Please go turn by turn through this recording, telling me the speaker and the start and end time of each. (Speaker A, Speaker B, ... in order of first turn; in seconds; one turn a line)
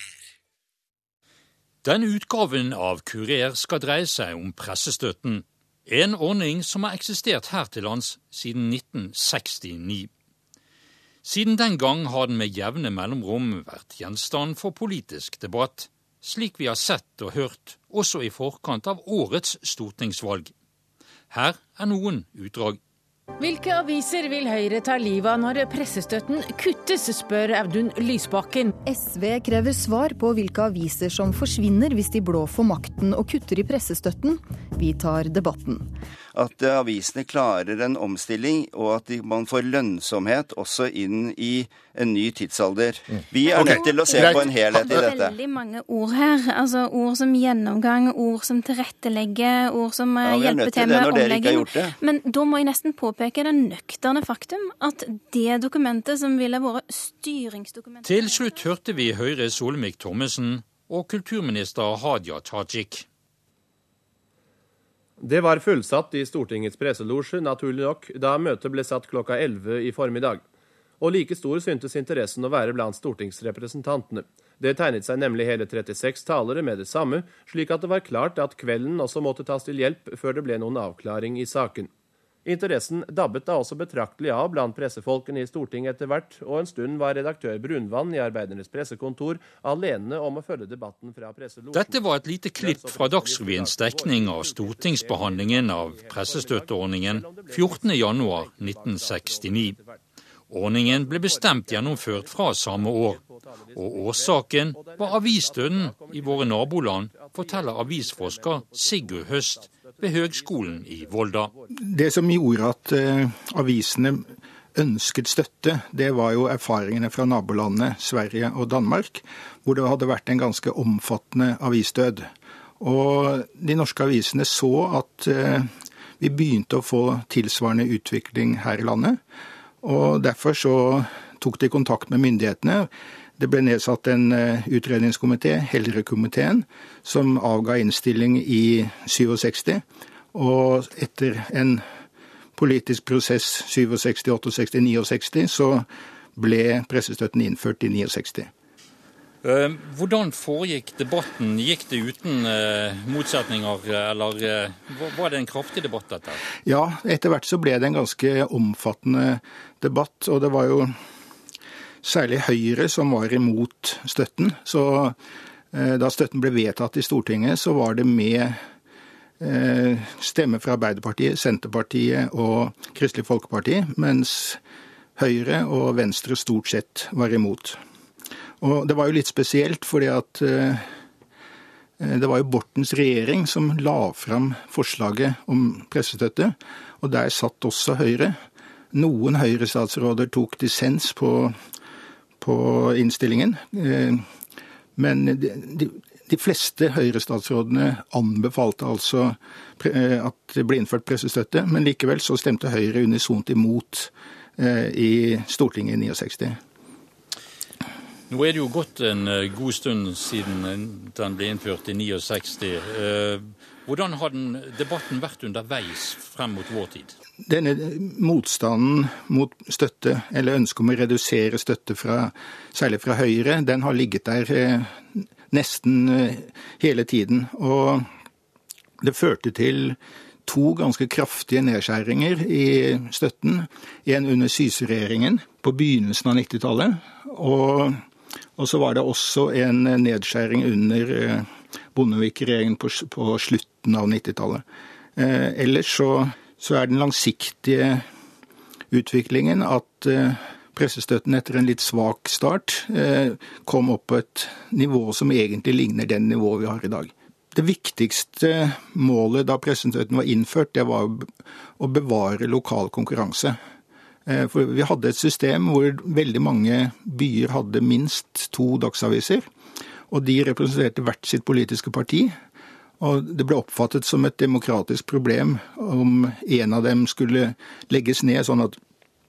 Speaker A: 1.8-10.1
Speaker A: 11.2-20.5
Speaker A: 21.3-22.8
Speaker B: 23.4-28.7
Speaker C: 28.9-35.9
Speaker D: 36.3-45.4
Speaker E: 43.5-59.1
Speaker D: 50.2-51.9
Speaker A: 58.0-63.1
Speaker F: 65.2-70.4
Speaker F: 71.0-81.9
Speaker F: 82.4-92.0
Speaker A: 91.7-99.7
Speaker F: 92.6-100.0
Speaker A: 100.5-103.2
Speaker F: 100.8-111.7
Speaker A: 103.7-111.5
Speaker G: 111.8-122.3
Speaker G: 122.8-129.2
Speaker G: 129.8-141.8
Speaker G: 142.6-148.5
Speaker A: 149.4-156.4
Speaker G: 156.6-160.9
Speaker G: 162.0-165.2
Speaker G: 165.7-168.6
Speaker G: 169.4-174.6
Speaker G: 175.2-177.8
Speaker G: 178.6-180.9
Speaker G: 182.0-188.4
Speaker G: 188.9-191.6
Speaker G: 192.4-194.2
Speaker G: 194.9-206.6
Speaker A: 208.3-217.1
Speaker G: 217.4-228.1
Speaker G: 229.0-238.0
Speaker G: 238.6-244.6
Speaker G: 245.2-248.1
Speaker G: 248.9-263.6
Speaker G: 264.2-269.5
Speaker G: 270.1-272.3
Speaker G: 273.0-278.8